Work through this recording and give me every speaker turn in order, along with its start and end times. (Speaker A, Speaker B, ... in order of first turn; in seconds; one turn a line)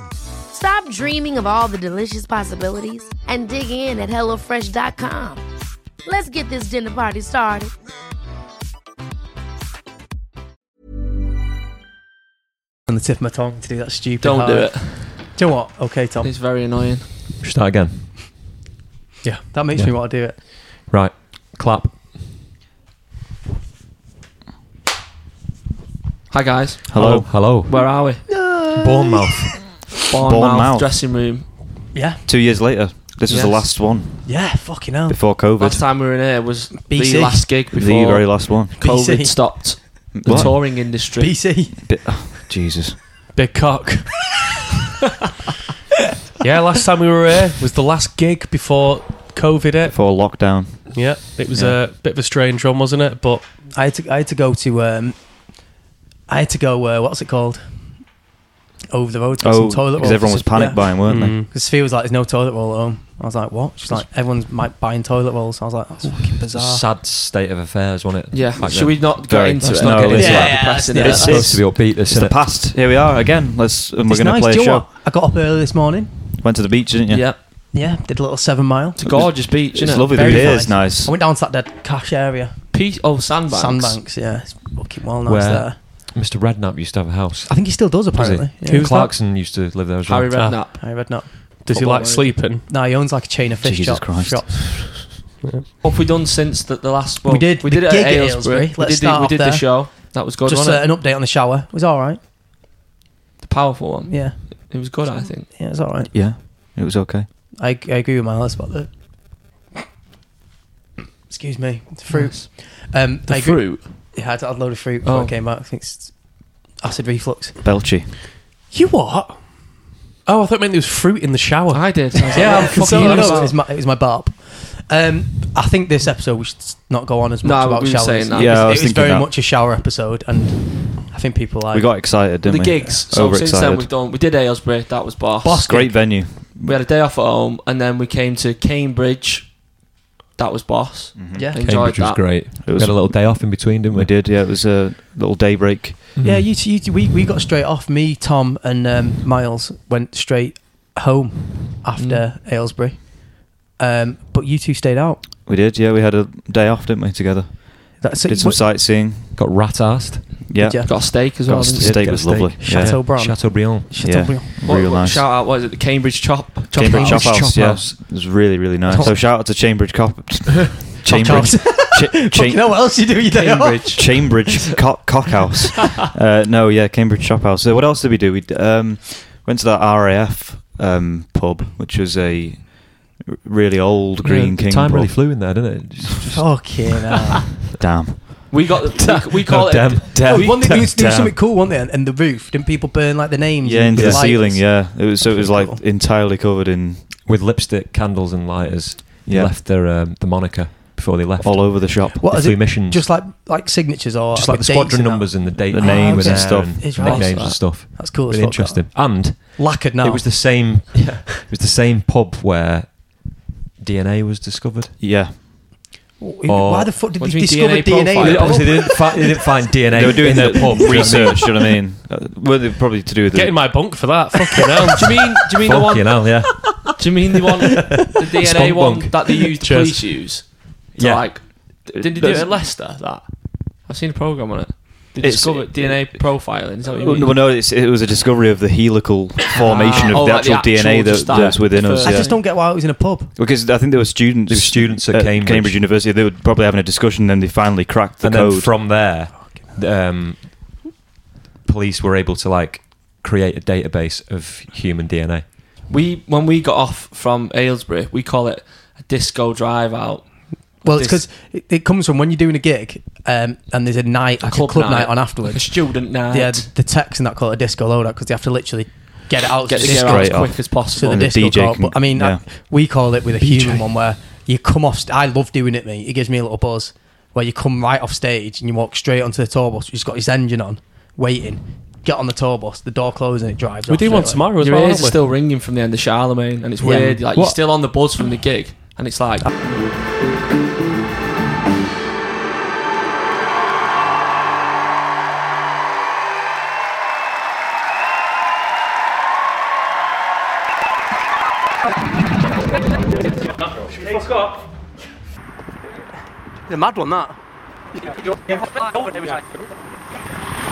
Speaker A: 0.5-5.4
Speaker A: 6.0-7.7
Speaker B: 12.9-16.3
Speaker C: 14.2-15.3
Speaker C: 16.2-17.1
Speaker D: 17.4-18.1
Speaker B: 19.5-20.4
Speaker D: 19.7-22.2
Speaker C: 26.3-27.0
Speaker E: 26.9-27.4
Speaker D: 26.9-28.1
Speaker C: 27.5-28.3
Speaker B: 28.3-29.5
Speaker D: 28.7-29.8
Speaker C: 29.9-31.5
Speaker E: 30.2-30.9
Speaker B: 31.9-32.2
Speaker E: 32.3-34.5
Speaker C: 33.3-33.8
Speaker B: 34.2-35.2
Speaker E: 35.1-35.9
Speaker C: 35.6-41.4
Speaker B: 36.8-37.5
Speaker E: 37.7-38.7
Speaker B: 38.8-39.8
Speaker E: 40.2-40.6
Speaker B: 40.4-42.3
Speaker E: 41.8-43.0
Speaker F: 43.4-44.1
Speaker F: 46.4-50.0
Speaker E: 49.9-51.8
Speaker F: 50.9-53.5
Speaker B: 53.7-55.2
Speaker B: 56.3-58.0
Speaker B: 58.9-66.9
Speaker E: 59.4-61.4
Speaker F: 61.0-61.5
Speaker D: 66.5-72.6
Speaker C: 68.3-71.6
Speaker E: 69.2-74.9
Speaker B: 70.2-71.6
Speaker B: 74.1-76.2
Speaker E: 76.4-77.3
Speaker C: 77.1-77.4
Speaker B: 77.5-79.3
Speaker C: 79.0-80.7
Speaker E: 79.1-81.1
Speaker B: 80.0-85.9
Speaker C: 82.7-84.0
Speaker D: 85.2-90.7
Speaker B: 87.5-89.0
Speaker F: 88.7-89.3
Speaker C: 90.0-92.4
Speaker F: 90.4-90.8
Speaker B: 90.6-95.2
Speaker F: 91.5-92.7
Speaker E: 93.6-94.6
Speaker C: 95.8-100.9
Speaker B: 97.3-102.2
Speaker C: 103.4-105.5
Speaker B: 104.1-104.4
Speaker B: 105.2-106.3
Speaker E: 106.1-107.3
Speaker B: 107.6-109.5
Speaker B: 111.3-117.8
Speaker C: 112.1-114.1
Speaker C: 115.0-115.3
Speaker E: 117.6-118.1
Speaker F: 118.7-119.5
Speaker F: 120.3-123.5
Speaker C: 121.7-123.6
Speaker B: 122.3-132.2
Speaker C: 127.4-128.8
Speaker E: 128.3-129.3
Speaker E: 131.7-133.9
Speaker C: 132.4-139.8
Speaker B: 135.4-135.9
Speaker E: 135.6-136.8
Speaker C: 140.4-142.4
Speaker E: 141.2-141.5
Speaker B: 141.4-141.6
Speaker D: 141.6-144.1
Speaker E: 142.7-146.1
Speaker D: 146.2-146.5
Speaker B: 146.2-155.2
Speaker C: 152.0-152.3
Speaker E: 155.4-159.4
Speaker B: 158.0-158.6
Speaker D: 159.3-160.5
Speaker E: 160.5-165.3
Speaker B: 160.6-160.9
Speaker C: 160.6-162.4
Speaker D: 161.8-164.3
Speaker B: 162.6-164.5
Speaker C: 164.6-167.7
Speaker E: 166.7-172.9
Speaker B: 166.9-167.4
Speaker D: 167.3-167.8
Speaker B: 168.9-169.2
Speaker B: 171.0-174.0
Speaker C: 173.3-174.8
Speaker E: 173.9-185.6
Speaker D: 184.2-187.7
Speaker B: 186.3-187.6
Speaker E: 187.8-188.7
Speaker C: 188.5-190.6
Speaker D: 188.9-191.1
Speaker B: 190.2-195.8
Speaker E: 190.4-191.4
Speaker E: 193.6-197.2
Speaker D: 193.9-194.4
Speaker D: 197.2-203.1
Speaker E: 199.3-199.6
Speaker E: 201.4-202.3
Speaker B: 202.1-211.4
Speaker D: 204.3-214.9
Speaker E: 205.6-206.9
Speaker C: 206.9-207.6
Speaker C: 211.0-211.3
Speaker E: 215.0-215.8
Speaker B: 216.2-221.4
Speaker D: 216.5-217.1
Speaker C: 217.2-219.1
Speaker D: 218.2-221.5
Speaker E: 219.9-224.1
Speaker F: 223.3-225.1
Speaker C: 225.0-237.4
Speaker D: 225.7-226.8
Speaker D: 228.4-229.2
Speaker F: 229.6-230.0
Speaker D: 231.0-231.9
Speaker E: 232.0-232.5
Speaker E: 235.2-236.2
Speaker E: 237.0-242.3
Speaker C: 239.5-242.4
Speaker B: 242.0-243.4
Speaker E: 243.4-249.0
Speaker D: 244.5-245.8
Speaker D: 248.2-250.9
Speaker D: 251.7-255.6
Speaker C: 255.9-261.2
Speaker B: 260.8-284.5
Speaker C: 264.4-266.7
Speaker C: 269.7-271.3
Speaker E: 269.8-272.4
Speaker F: 273.4-273.9
Speaker F: 283.9-285.2
Speaker C: 284.6-289.5
Speaker B: 286.8-287.6
Speaker B: 306.7-307.4